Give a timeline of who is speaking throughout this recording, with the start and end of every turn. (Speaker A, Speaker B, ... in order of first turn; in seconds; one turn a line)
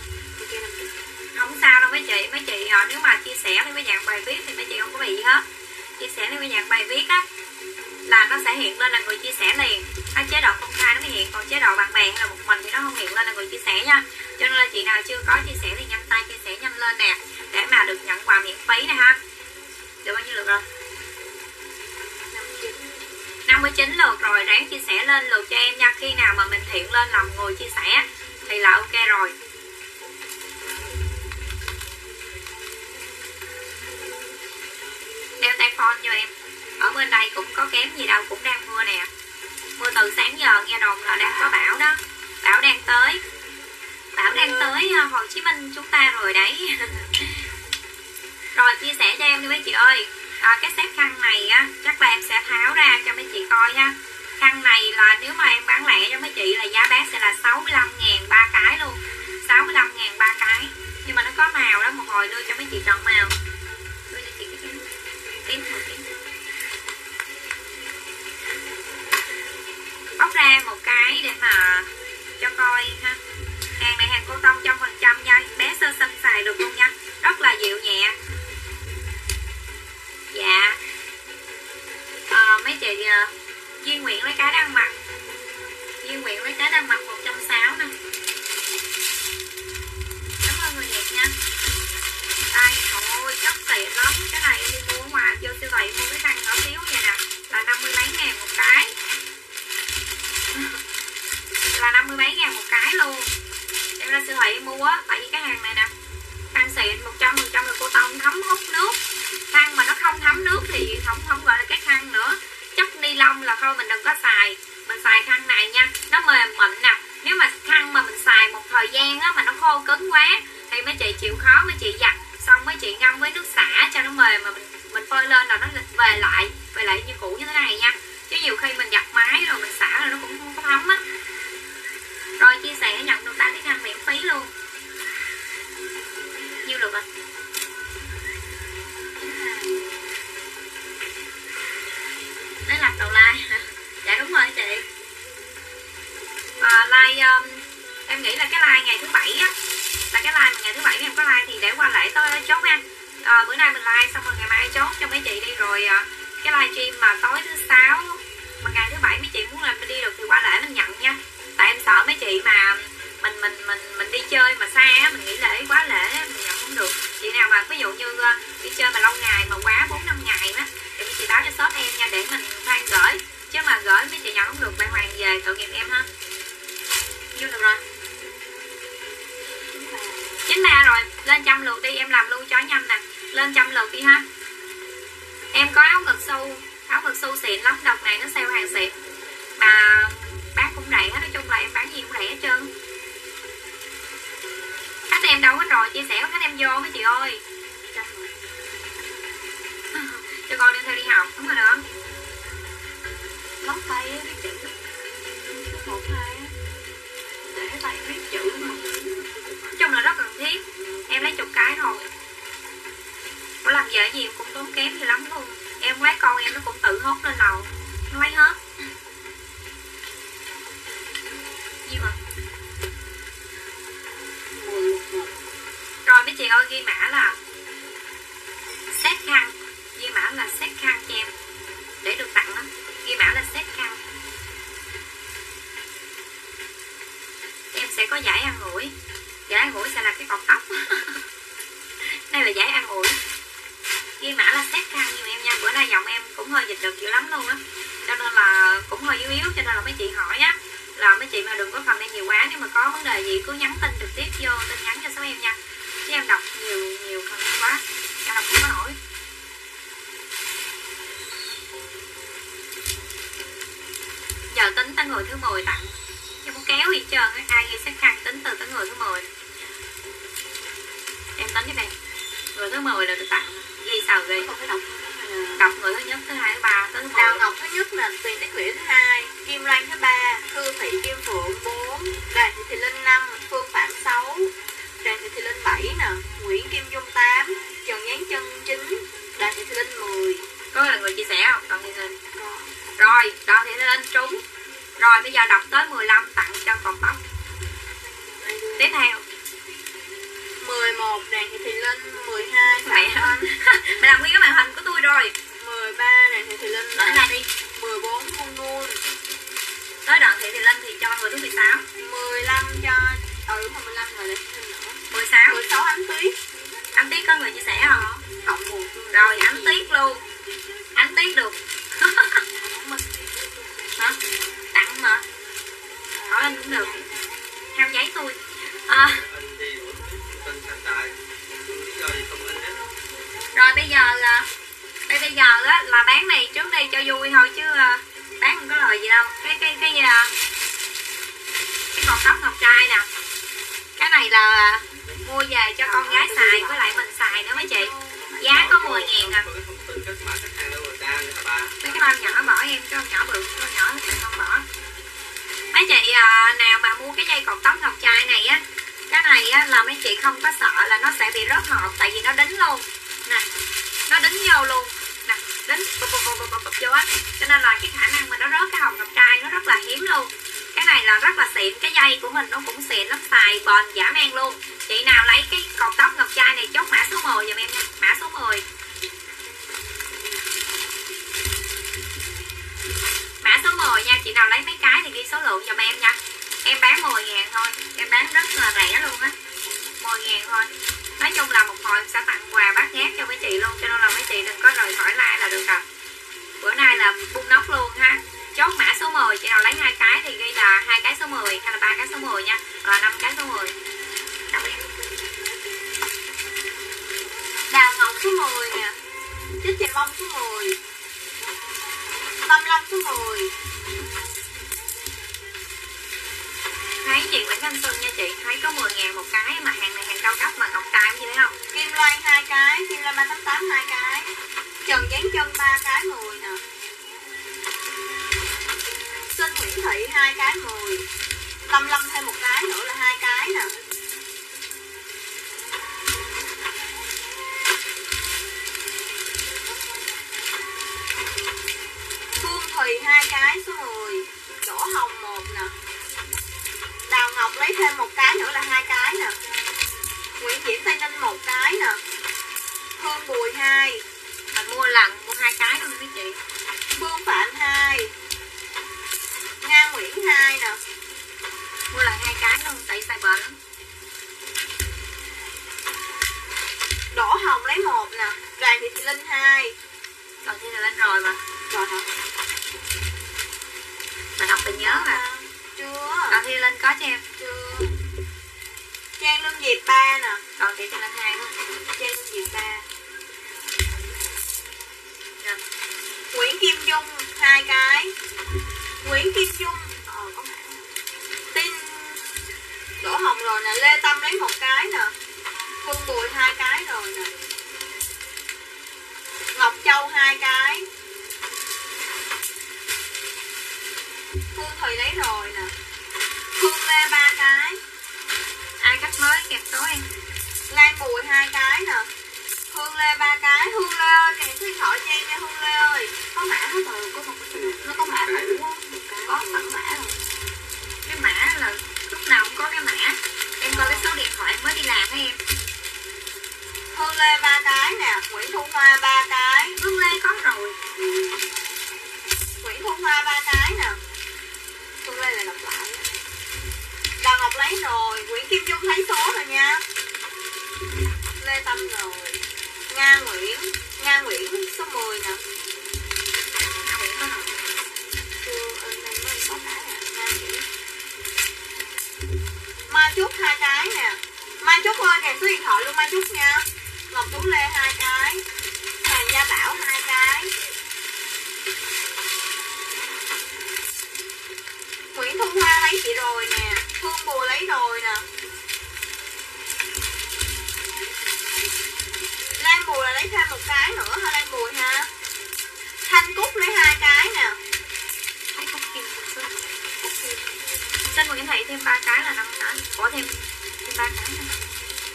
Speaker A: 0.4-0.8
Speaker B: 1.3-5.5
Speaker B: 6.0-7.3
Speaker B: 8.1-19.2
Speaker B: 20.0-20.6
Speaker B: 23.5-29.4
Speaker B: 35.4-39.1
Speaker B: 39.8-43.2
Speaker B: 44.1-47.5
Speaker B: 48.6-63.4
Speaker B: 64.1-64.8
Speaker B: 65.5-66.1
Speaker B: 70.2-71.9
Speaker B: 72.4-73.2
Speaker B: 73.8-78.2
Speaker B: 80.3-80.8
Speaker B: 82.3-85.0
Speaker B: 86.0-88.0
Speaker B: 90.4-91.3
Speaker B: 92.5-99.0
Speaker B: 101.7-103.3
Speaker B: 104.0-105.9
Speaker B: 106.5-131.0
Speaker B: 132.4-134.5
Speaker B: 136.6-137.1
Speaker A: 139.3-139.7
Speaker B: 142.7-144.8
Speaker B: 146.6-149.5
Speaker B: 150.1-176.1
Speaker B: 177.3-177.8
Speaker A: 179.7-180.2
Speaker B: 180.5-184.2
Speaker B: 185.5-189.0
Speaker B: 189.6-192.7
Speaker B: 195.1-197.4
Speaker A: 197.9-198.3
Speaker B: 199.9-201.8
Speaker A: 203.6-204.7
Speaker A: 205.6-206.5
Speaker B: 207.6-212.0
Speaker A: 208.3-208.9
Speaker B: 213.6-218.6
Speaker B: 221.8-222.2
Speaker A: 224.6-225.3
Speaker B: 226.1-227.4
Speaker B: 228.9-231.3
Speaker B: 232.0-234.0
Speaker B: 237.7-238.9
Speaker B: 239.5-241.2
Speaker B: 242.0-243.2
Speaker B: 244.2-259.0
Speaker B: 264.5-269.3
Speaker B: 271.4-271.9
Speaker B: 272.5-274.5
Speaker A: 274.3-275.7
Speaker B: 275.6-277.4
Speaker A: 277.1-290.5
Speaker B: 290.7-292.2
Speaker A: 292.3-292.7
Speaker B: 293.0-294.4
Speaker B: 295.0-297.2
Speaker A: 298.3-298.9
Speaker B: 298.8-299.2
Speaker A: 300.6-303.5
Speaker B: 302.9-305.4
Speaker A: 305.5-309.0
Speaker B: 307.0-307.5
Speaker B: 310.1-311.9
Speaker A: 312.0-316.4
Speaker B: 315.1-315.6
Speaker B: 316.9-318.1
Speaker A: 317.8-319.9
Speaker B: 319.1-320.2
Speaker B: 320.9-322.4
Speaker A: 322.6-323.1
Speaker B: 324.7-325.2
Speaker A: 326.1-327.1
Speaker B: 326.3-327.0
Speaker B: 327.7-329.2
Speaker C: 329.1-332.8
Speaker B: 333.5-334.5
Speaker B: 335.1-340.3
Speaker B: 341.9-343.1
Speaker B: 344.0-349.5
Speaker A: 345.8-348.6
Speaker C: 348.1-352.6
Speaker B: 351.8-354.7
Speaker B: 355.7-363.4
Speaker B: 364.1-378.6
Speaker B: 383.4-389.4
Speaker B: 390.0-395.9
Speaker B: 396.6-403.7
Speaker B: 404.5-404.8
Speaker A: 407.7-409.0
Speaker A: 409.6-410.8
Speaker A: 412.4-413.5
Speaker B: 417.0-421.6
Speaker A: 421.7-426.6
Speaker A: 429.3-431.1
Speaker A: 431.7-433.7
Speaker A: 442.4-445.8
Speaker A: 447.1-449.4
Speaker A: 450.4-452.0
Speaker A: 453.0-454.1
Speaker B: 454.5-456.4
Speaker A: 456.9-458.1
Speaker A: 459.6-460.8
Speaker B: 461.9-463.6
Speaker A: 467.1-469.8
Speaker B: 470.4-471.4
Speaker A: 471.7-472.1
Speaker B: 474.4-475.2
Speaker A: 474.4-476.4
Speaker B: 476.3-477.2
Speaker A: 477.4-478.0
Speaker A: 479.2-480.4
Speaker B: 480.6-481.6
Speaker A: 481.9-482.9
Speaker A: 486.3-488.1
Speaker A: 489.0-490.8
Speaker A: 491.5-492.2
Speaker A: 493.0-495.1
Speaker A: 495.8-497.4
Speaker A: 499.5-500.9
Speaker A: 504.5-505.8
Speaker A: 506.5-507.8
Speaker B: 508.8-510.1
Speaker A: 510.7-512.1
Speaker A: 512.7-520.2
Speaker C: 517.5-518.6
Speaker B: 521.0-525.4
Speaker A: 523.6-524.1
Speaker A: 526.9-529.8
Speaker B: 529.8-530.8
Speaker A: 532.6-534.0
Speaker A: 535.0-536.1
Speaker A: 537.2-539.8
Speaker A: 541.4-545.4
Speaker B: 546.8-547.6
Speaker A: 548.4-550.7
Speaker A: 552.9-558.5
Speaker A: 559.0-560.5
Speaker A: 565.1-568.3
Speaker A: 572.6-575.1
Speaker A: 576.0-577.6
Speaker B: 578.5-580.0
Speaker A: 580.1-580.4
Speaker B: 581.0-584.6